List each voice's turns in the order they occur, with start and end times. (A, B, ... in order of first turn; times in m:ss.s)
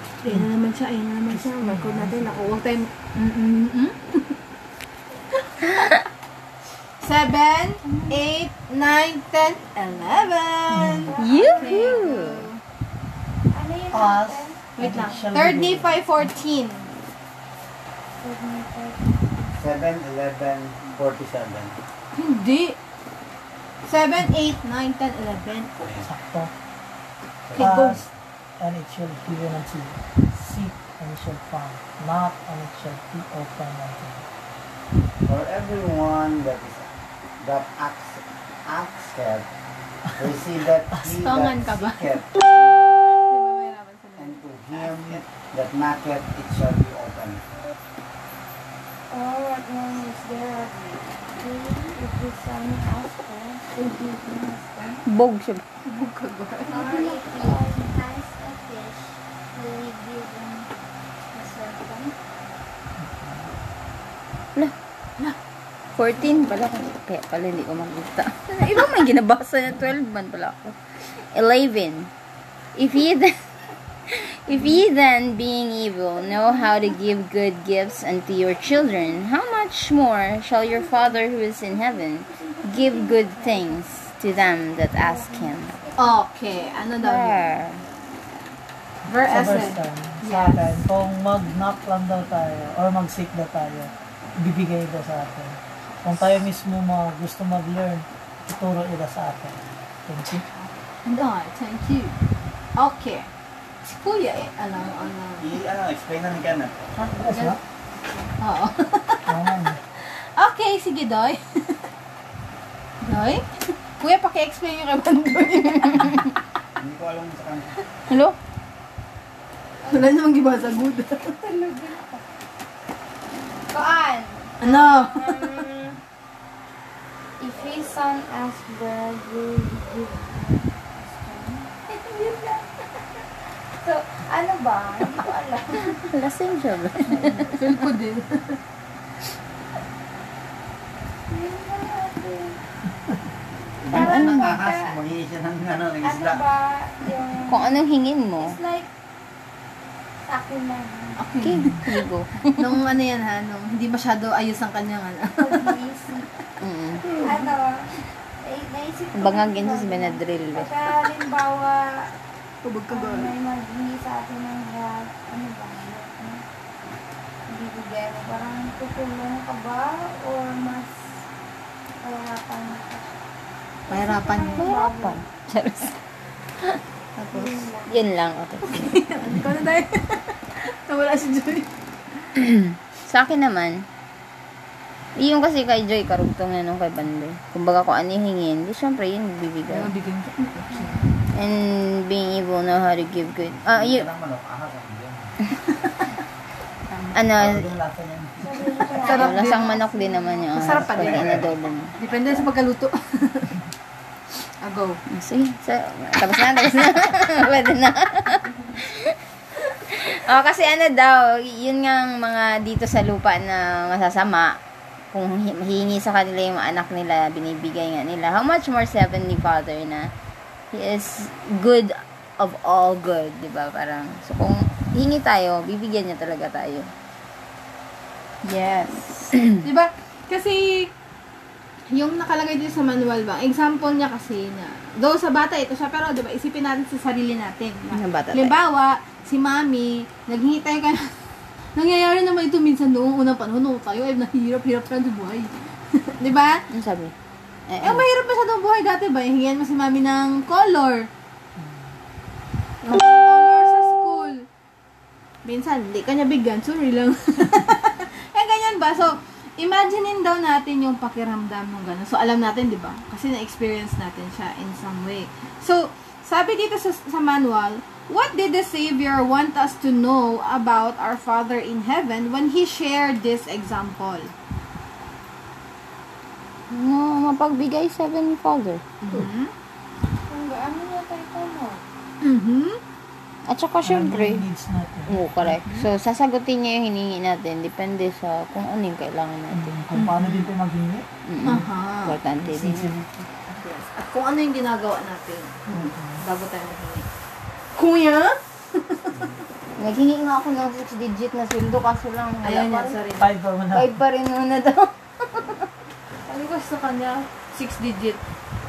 0:00.2-0:04.4 A
0:01.3-0:02.5 B
0:05.6-0:05.9 A
0:07.0-0:12.6 A
0:07.9-0:08.2 C
0:10.7-0:11.1 B
0:11.1-0:12.1 C
0:11.2-0:12.4 D
0:13.5-0:14.6 C
0:13.9-0:16.3 B
0:14.8-0:16.9 A
0:18.1-0:19.6 C
0:19.6-0:21.7 E
0:22.1-0:22.8 A
0:23.8-0:25.8 A
0:25.8-0:26.1 E
0:26.0-0:26.5 B
0:27.5-0:27.8 E
0:27.6-0:28.0 B
0:27.6-0:28.1 A
0:28.6-0:34.3 B
0:35.2-0:39.5 E
0:40.2-0:43.1 E
0:41.1-0:42.0 A
0:43.3-0:45.1 A
0:44.2-0:47.4 E
0:49.1-0:55.0 C
0:55.0-0:55.6 D
0:55.8-0:57.0 A
0:56.7-1:00.7 C
0:56.8-0:57.7 D
1:01.3-1:02.1 C
1:03.0-1:03.5 B
1:06.0-1:12.1 D
1:12.8-1:13.4 D
1:14.2-1:25.8 D
1:16.2-1:17.0 C
1:18.8-1:19.2 C
1:20.6-1:23.8 C
1:24.4-1:26.9 C
1:26.0-1:27.5 A
1:27.0-1:27.8 D
1:29.0-1:30.7 A
1:29.2-1:40.4 B
1:33.6-1:34.2 C
1:40.5-1:42.2 A
1:42.8-1:43.3 A
1:43.8-1:45.5 A
1:45.4-1:46.9 E
1:47.0-1:47.6 B
1:47.3-1:47.6 A
1:48.4-1:49.3 A
1:49.3-1:49.8 B
1:50.0-1:51.8 A
1:53.0-1:56.3 A
1:56.8-1:57.8 E
1:58.1-1:58.4 D
1:59.8-2:02.2 C
1:59.9-2:01.3 A
2:03.7-2:05.6 C
2:04.6-2:05.3 A
2:05.4-2:06.0 D
2:07.4-2:16.1 C
2:15.7-2:17.6 D
2:17.1-2:18.6 A
2:21.3-2:22.6 C
2:23.8-2:26.4 E
2:23.9-2:25.0 C
2:23.9-2:24.6 D
2:26.0-2:27.8 C
2:27.5-2:28.6 D
2:28.4-2:28.9 C
2:30.3-2:31.4 C
2:31.2-2:31.8 A
2:31.4-2:32.6 D
2:32.6-2:35.7 A
2:35.4-2:36.3 C
2:36.6-2:37.1 D
2:37.0-2:37.5 A
2:37.1-2:37.9 C
2:38.4-2:41.9 C
2:39.2-2:40.7 D
2:42.6-2:43.3 A
2:42.9-2:46.4 C
2:47.5-2:51.2 C
2:52.0-2:53.2 C
2:53.9-2:55.2 C
2:53.9-2:54.7 A
2:54.6-2:56.0 D
2:57.2-2:57.7 A
2:57.3-2:58.0 C
2:57.9-2:58.9 D
2:58.7-3:01.7 A
3:02.4-3:03.9 D
3:05.2-3:09.9 D
3:09.7-3:11.2 A
3:10.7-3:11.1 C
3:11.3-3:14.1 D
3:13.5-3:15.3 E
3:15.8-3:16.1 A
3:16.9-3:17.2 A
3:17.1-3:17.7 D
3:17.4-3:18.9 E
3:18.4-3:20.7 C
3:19.0-3:22.0 D
3:19.0-3:19.7 A
3:20.5-3:21.3 A
3:20.7-3:21.4 E
3:22.0-3:23.5 A
3:24.6-3:25.0 A
3:25.1-3:29.2 D
3:30.0-3:34.6 D
3:35.1-3:40.1 D
3:40.7-3:46.9 D
3:48.4-3:49.6 D
3:49.6-3:50.9 A
3:51.9-4:01.1 A
3:57.9-3:58.6 D
4:01.8-4:05.5 A
4:06.2-4:06.7 A
4:06.7-4:07.1 D
4:07.7-4:08.0 D
4:07.8-4:11.1 A
4:11.6-4:12.0 B
4:12.8-4:14.4 A
4:15.4-4:34.3 A
4:36.7-4:38.8 D
4:39.0-4:39.5 A
4:40.3-4:41.8 C
4:42.2-4:42.8 A
4:43.5-4:44.4 D
4:43.8-4:45.2 B
4:45.1-4:49.7 D
4:45.5-4:45.9 A
4:49.5-4:51.0 B
4:49.9-4:50.5 A
4:51.3-4:52.9 D
4:51.4-4:52.2 A
4:52.4-4:53.3 B
4:53.5-4:57.1 A
4:55.7-4:56.2 B
4:57.8-4:59.4 A
4:59.8-5:03.0 D
5:02.4-5:03.3 A
5:03.2-5:03.9 B
5:03.7-5:05.7 D
5:06.3-5:08.2 A